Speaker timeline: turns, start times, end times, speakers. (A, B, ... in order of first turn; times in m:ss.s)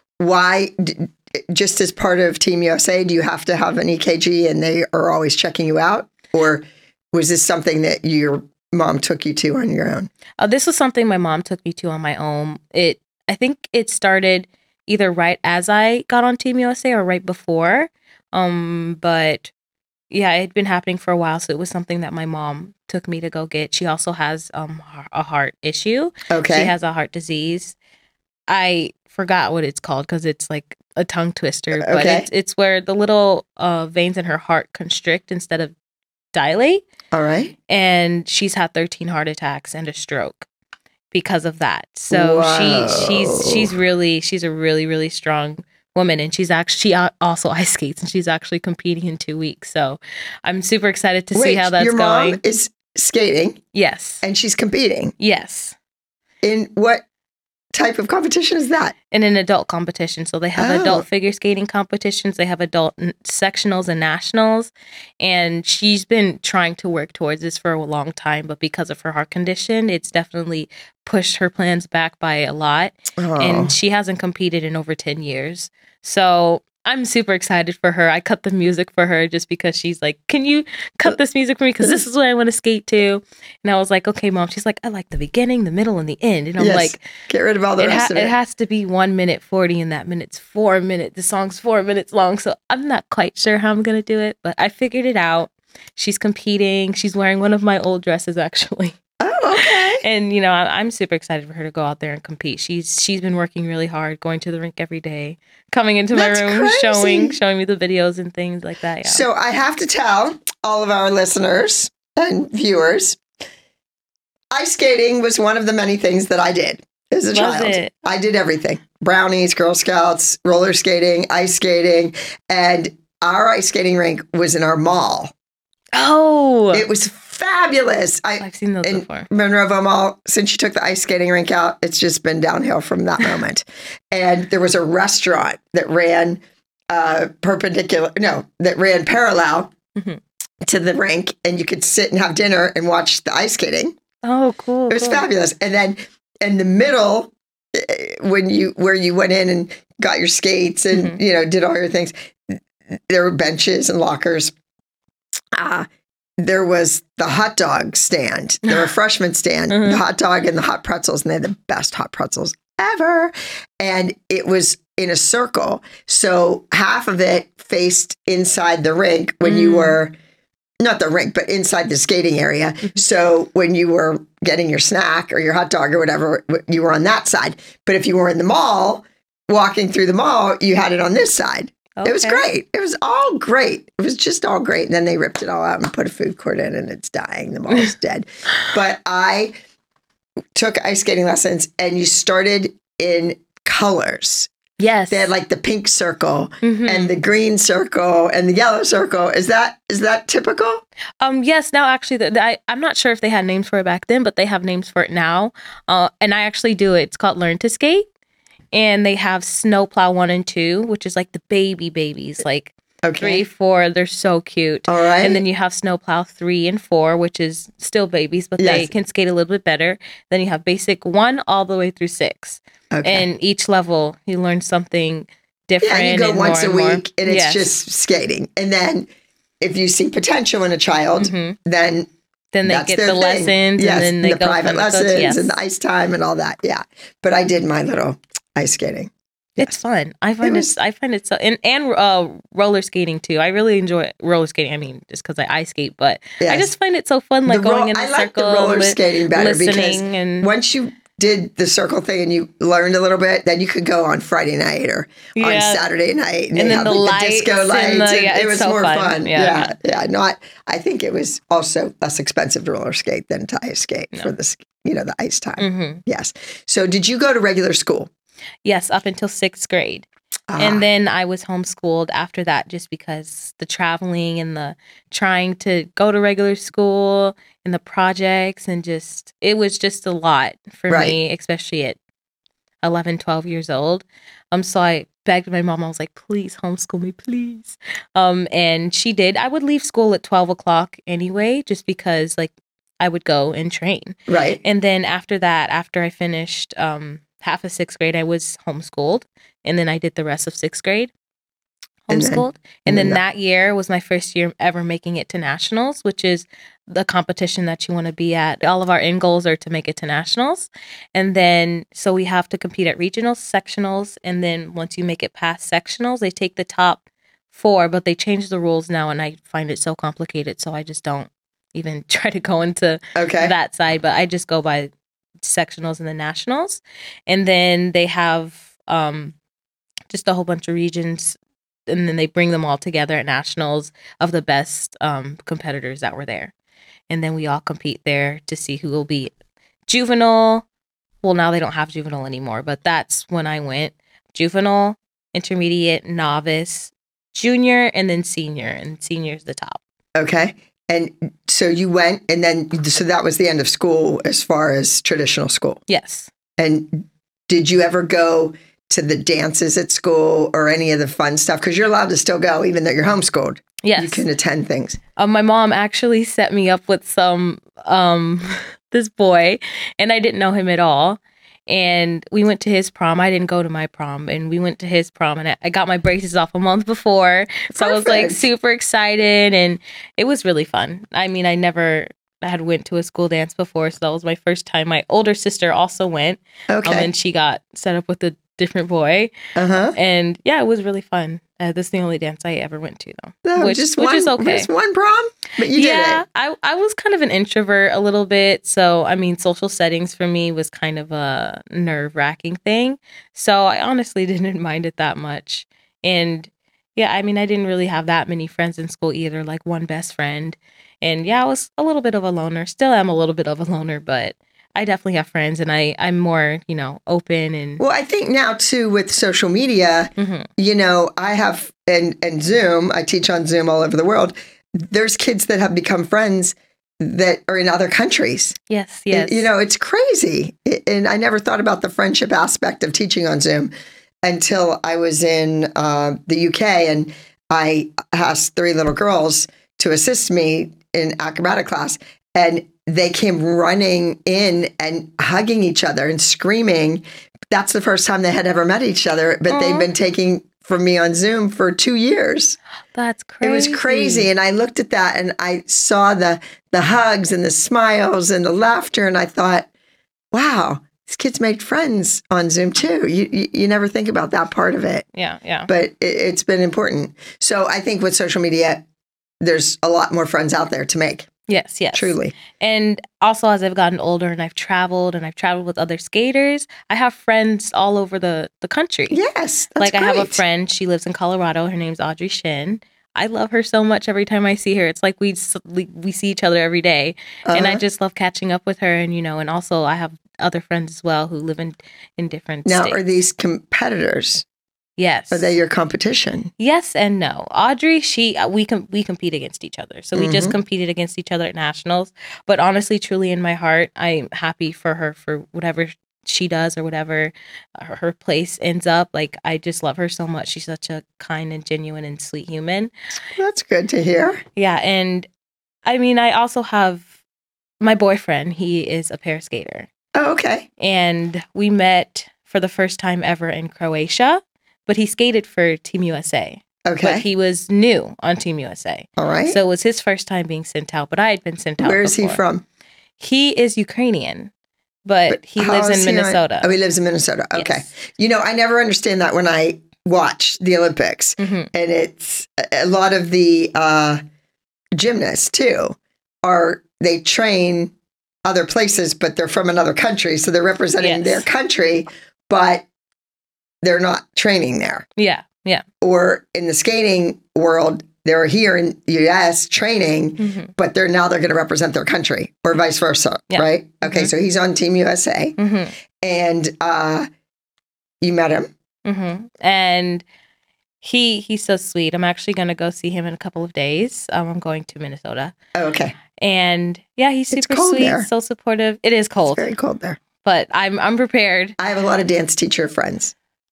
0:00.2-0:10.1 A
0:10.4-0:19.5 B
0:20.1-0:27.8 B
0:26.3-0:26.7 A
0:28.5-0:35.7 B
0:31.8-0:32.3 A
0:36.3-0:36.8 B
0:37.1-0:37.5 A
0:37.7-0:40.5 B
0:41.1-0:52.4 B
0:42.1-0:43.7 A
0:51.3-0:53.6 A
0:53.7-0:54.2 B
0:54.2-0:55.1 A
0:55.2-0:55.8 B
0:56.4-0:57.0 A
0:57.7-0:59.0 A
0:59.1-1:27.0 B
1:00.6-1:01.0 A
1:13.2-1:13.7 A
1:26.6-1:28.3 A
1:27.8-1:39.0 B
1:39.2-1:40.0 A
1:39.6-1:49.2 B
1:46.1-1:47.3 A
1:49.0-1:53.2 A
1:54.5-2:05.3 A
1:57.3-1:57.9 B
2:05.9-2:06.9 B
2:06.7-2:19.7 A
2:08.4-2:09.3 B
2:20.6-2:23.9 A
2:24.2-2:25.2 B
2:24.9-2:32.6 A
2:30.9-2:31.2 B
2:33.1-2:34.5 A
2:35.5-2:50.1 A
2:39.7-2:40.0 B
2:49.4-2:50.0 B
2:50.8-3:09.5 A
3:02.0-3:02.4 B
3:10.5-3:14.5 A
3:14.8-3:15.3 B
3:15.1-3:20.8 A
3:16.6-3:17.1 B
3:21.2-3:28.1 B
3:28.7-3:47.7 B
3:33.0-3:33.4 A
3:34.9-3:35.4 A
3:38.6-3:38.9 A
3:42.9-3:43.2 A
3:45.8-3:49.1 A
3:49.6-3:52.1 A
3:51.2-3:51.6 B
3:52.5-3:55.5 B
3:52.6-3:59.8 A
3:59.6-4:10.5 B
4:00.4-4:00.7 A
4:06.4-4:06.7 A
4:07.4-4:28.1 A
4:15.3-4:15.8 B
4:16.5-4:19.7 B
4:25.6-4:26.0 B
4:28.6-4:42.0 B
4:30.5-4:30.8 A
4:40.9-4:41.2 A
4:42.8-5:01.1 B
4:54.3-4:54.6 A
5:02.1-5:24.9 B
5:02.1-5:03.2 A
5:23.1-5:23.5 A
5:25.4-5:29.3 B
5:30.1-5:31.4 B
5:31.9-5:36.5 B
5:37.1-5:39.3 B
5:39.9-5:40.6 B
5:41.2-5:49.8 B
5:50.2-5:55.8 A
5:55.9-5:56.3 B
5:56.6-6:05.0 A
6:03.8-6:04.2 B
6:05.2-6:29.3 B
6:17.7-6:18.4 A
6:26.7-6:27.1 A
6:29.5-6:30.0 A
6:29.9-6:34.7 B
6:33.4-6:36.2 A
6:35.7-6:57.8 B
6:57.8-7:08.6 A
7:00.2-7:00.5 B
7:08.7-7:09.5 B
7:09.1-7:13.7 A
7:14.2-7:32.6 A
7:29.5-7:29.9 B
7:32.9-7:34.3 B
7:33.4-7:39.7 A
7:40.3-7:45.0 A
7:45.1-7:45.7 B
7:45.7-7:48.8 A
7:49.4-7:51.3 A
7:51.5-7:59.2 B
7:51.9-7:52.3 A
7:59.1-8:00.4 A
7:59.8-8:13.0 B
8:07.4-8:07.8 A
8:12.6-8:14.4 A
8:15.0-8:15.5 B
8:15.3-8:16.5 A
8:16.6-8:32.9 B
8:20.1-8:20.5 A
8:33.3-8:34.4 A
8:34.6-8:35.3 B
8:35.8-8:37.1 B
8:37.8-8:39.9 B
8:40.1-8:40.7 A
8:40.8-8:52.4 B
8:46.8-8:47.2 A
8:49.2-8:49.6 A
8:51.8-8:52.6 A
8:53.2-8:54.5 B
8:55.0-8:56.7 B
8:55.3-9:04.2 A
8:57.5-8:57.8 B
9:01.4-9:01.7 B
9:05.0-9:07.9 A
9:08.4-9:12.8 A
9:11.0-9:11.4 B
9:13.8-9:15.0 A
9:15.2-9:15.8 B
9:16.0-9:25.6 A
9:20.4-9:20.7 B
9:23.5-9:24.3 B
9:25.6-9:25.9 B
9:26.2-9:27.3 A
9:28.2-9:28.7 A
9:29.0-9:30.2 B
9:31.0-9:35.5 B
9:35.7-9:36.2 A
9:36.4-9:39.7 B
9:37.5-9:38.3 A
9:39.5-9:40.2 A
9:40.4-9:41.8 B
9:41.8-9:43.3 A